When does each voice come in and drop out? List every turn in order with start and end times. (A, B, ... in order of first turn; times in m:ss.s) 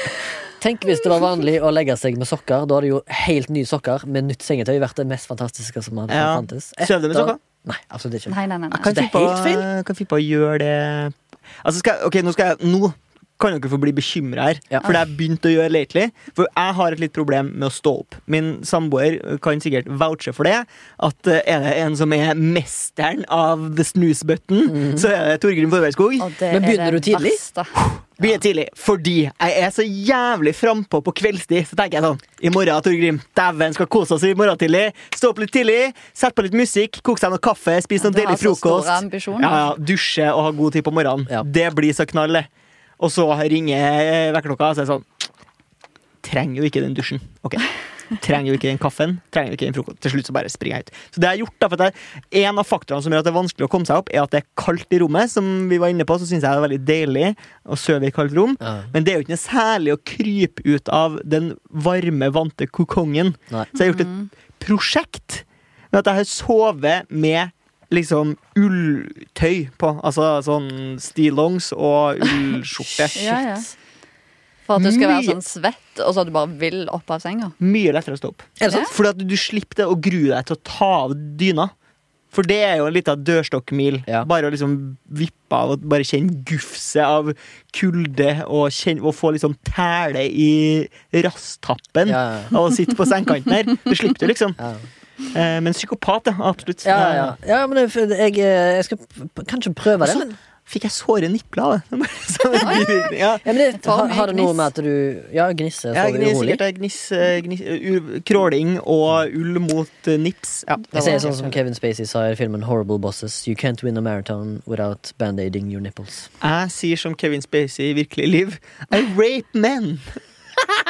0:00.4-0:09.7 A
0:06.1-0:07.4 B
0:08.3-0:09.0 C
0:08.8-0:26.3 B
0:24.7-0:25.0 A
0:26.2-0:27.8 C
0:26.5-0:27.4 A
0:27.7-0:42.5 B
0:38.0-0:39.7 C
0:43.0-0:45.0 B
0:46.2-1:13.4 B
0:58.6-0:58.9 A
1:03.7-1:04.3 C
1:13.1-1:13.4 A
1:13.1-1:13.7 C
1:14.7-1:17.6 C
1:14.8-1:15.4 B
1:17.6-1:21.7 B
1:18.6-1:18.9 A
1:18.6-1:18.9 C
1:22.3-1:34.6 B
1:32.0-1:32.6 A
1:34.6-1:34.8 A
1:35.3-1:37.3 B
1:36.8-1:40.4 A
1:40.0-1:43.4 B
1:42.6-1:43.0 C
1:43.4-1:46.6 A
1:43.7-1:44.7 C
1:45.9-1:51.5 B
1:50.9-1:56.3 A
1:51.0-1:51.2 C
1:56.4-2:00.2 B